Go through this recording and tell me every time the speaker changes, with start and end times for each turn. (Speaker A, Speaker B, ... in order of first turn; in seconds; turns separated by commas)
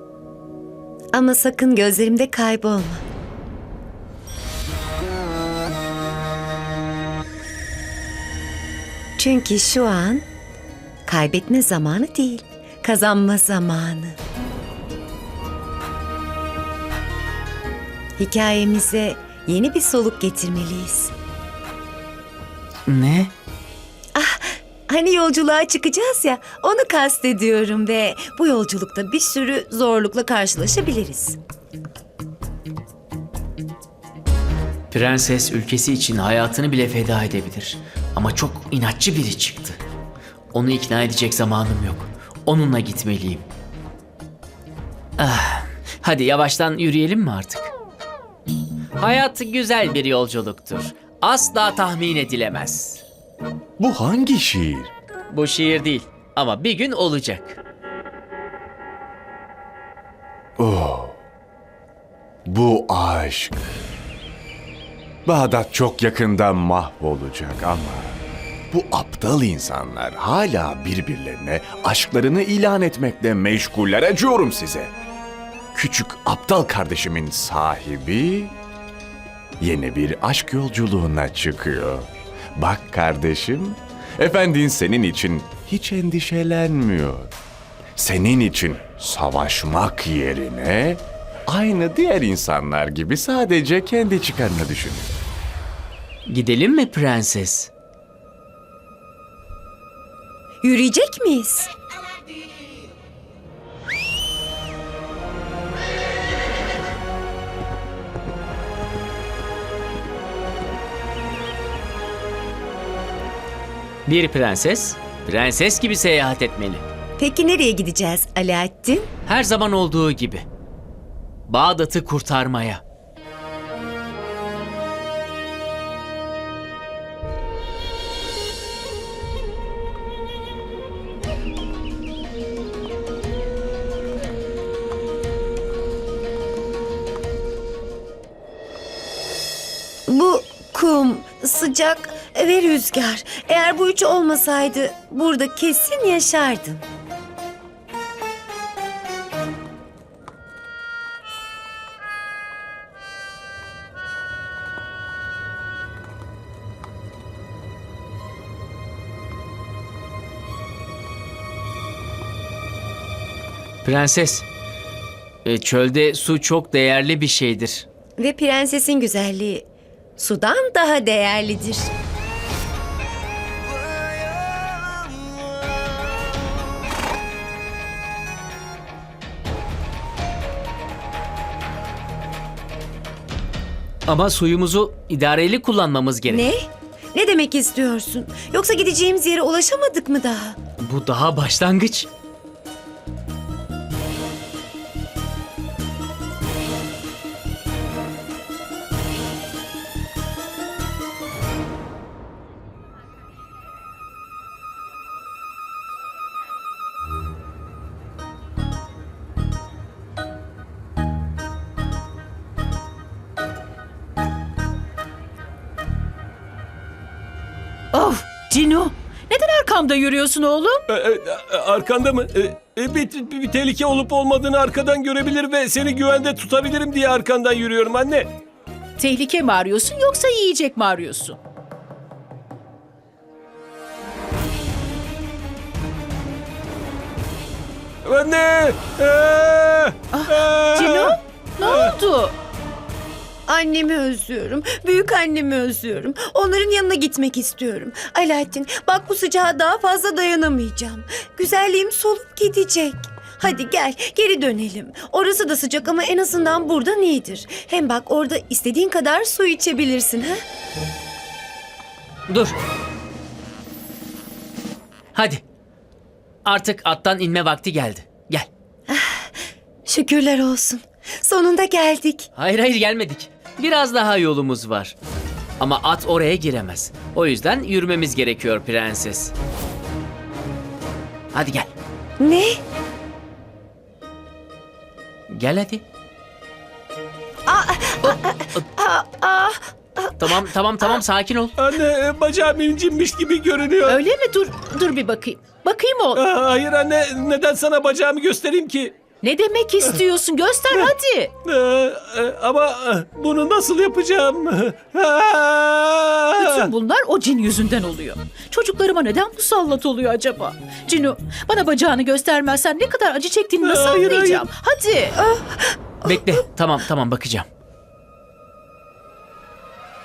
Speaker A: 1.1-2.8, Speaker A: 9.2-10.2, Speaker A: 11.1-14.1, Speaker A: 18.2-21.1, Speaker B: 22.9-23.3, Speaker A: 24.9-31.4, Speaker B: 34.9-39.8, Speaker B: 40.5-43.5, Speaker B: 45.2-47.7, Speaker B: 49.0-53.0, Speaker C: 53.8-54.9, Speaker B: 55.3-57.6, Speaker C: 60.6-61.2, Speaker C: 62.5-63.7, Speaker C: 65.2-68.2, Speaker C: 68.7-74.9, Speaker C: 75.7-78.5, Speaker C: 79.6-87.3, Speaker C: 88.0-95.1, Speaker B: 96.3-97.7, Speaker A: 100.6-101.7, Speaker B: 114.1-116.8, Speaker A: 117.2-119.1, Speaker B: 119.2-120.4, Speaker B: 121.5-122.8, Speaker A: 140.1-146.8, Speaker B: 163.8-164.4, Speaker B: 165.4-167.8, Speaker A: 168.2-169.4, Speaker A: 170.2-171.9, Speaker B: 184.1-186.4, Speaker A: 187.1-190.5, Speaker B: 190.8-192.1, Speaker D: 217.9-220.8, Speaker E: 220.9-228.3, Speaker D: 229.0-231.4, Speaker E: 238.0-241.9, Speaker D: 240.1-242.3, Speaker A: 243.5-260.3, Speaker B: 262.3-262.6, Speaker B: 265.1-265.4, Speaker B: 266.4-268.5, Speaker A: 269.9-272.3, Speaker B: 272.4-274.9, Speaker B: 275.6-279.3, Speaker B: 281.3-281.7, Speaker A: 282.2-282.6, Speaker B: 285.3-285.8, Speaker A: 287.4-290.1, Speaker B: 288.0-288.6, Speaker B: 290.2-291.5, Speaker E: 291.6-294.0, Speaker D: 293.9-296.2, Speaker E: 296.1-299.1, Speaker D: 299.2-301.3, Speaker E: 301.4-306.7, Speaker D: 306.4-315.2, Speaker E: 313.6-314.4, Speaker A: 315.2-315.8, Speaker B: 316.0-317.5